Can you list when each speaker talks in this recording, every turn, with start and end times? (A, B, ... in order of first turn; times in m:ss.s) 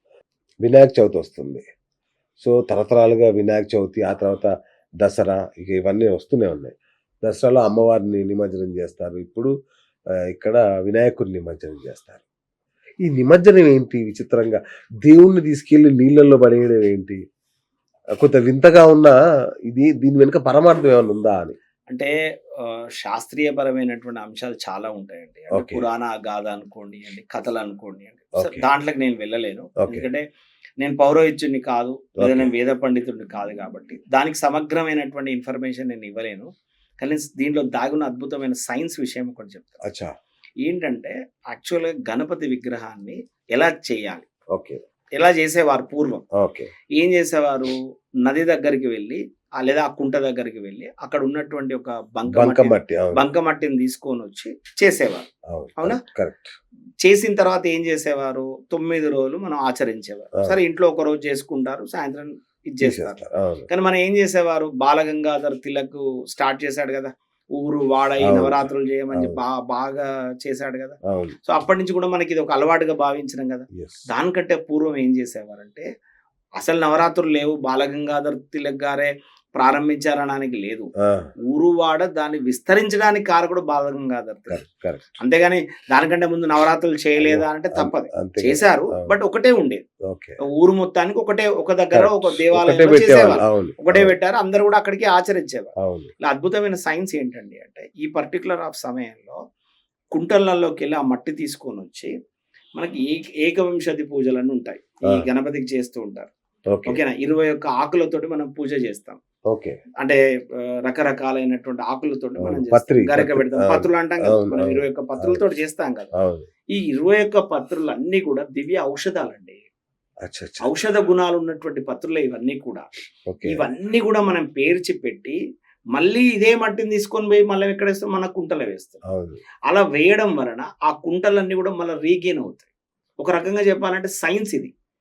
0:00.6-0:01.6 A
0:02.4-0:04.5 A
0:05.0-0:06.7 A
0:07.2-0:09.5 A
0:10.3-0:12.2 A
0:13.0-0:17.2 A
0:18.2-0:19.2 A
0:19.7-0:21.6 A
0:22.6-0:30.2 B
0:25.5-0:25.8 A
0:28.4-0:28.6 A
0:29.8-0:30.1 A
0:30.8-0:39.8 B
0:32.2-0:32.5 A
0:40.6-0:44.2 B
0:44.5-0:44.8 A
0:45.2-0:46.2 B
0:46.4-0:46.7 A
0:47.0-0:55.3 B
0:52.2-0:53.2 A
0:55.5-0:56.5 A
0:57.0-1:15.8 B
1:02.8-1:03.7 A
1:08.2-1:09.4 A
1:11.1-1:11.4 A
1:13.8-1:14.0 A
1:16.6-1:20.9 B
1:21.0-1:21.3 A
1:21.5-1:24.6 B
1:24.5-1:25.2 A
1:25.2-1:29.8 B
1:27.2-1:29.1 A
1:30.1-1:30.4 A
1:30.5-1:39.4 B
1:31.9-1:34.2 A
1:35.8-1:36.1 A
1:40.1-1:42.1 B
1:42.8-1:46.3 B
1:46.7-1:47.0 A
1:46.8-1:49.2 B
1:49.5-1:49.8 A
1:50.0-1:56.1 B
1:52.4-1:55.5 A
1:56.2-1:56.5 A
1:56.7-1:59.6 B
2:00.2-2:00.7 A
2:00.6-2:02.9 B
2:03.3-2:03.7 A
2:03.4-2:05.4 B
2:05.9-2:09.0 B
2:09.1-2:09.4 A
2:09.7-2:12.7 B
2:13.2-2:14.7 B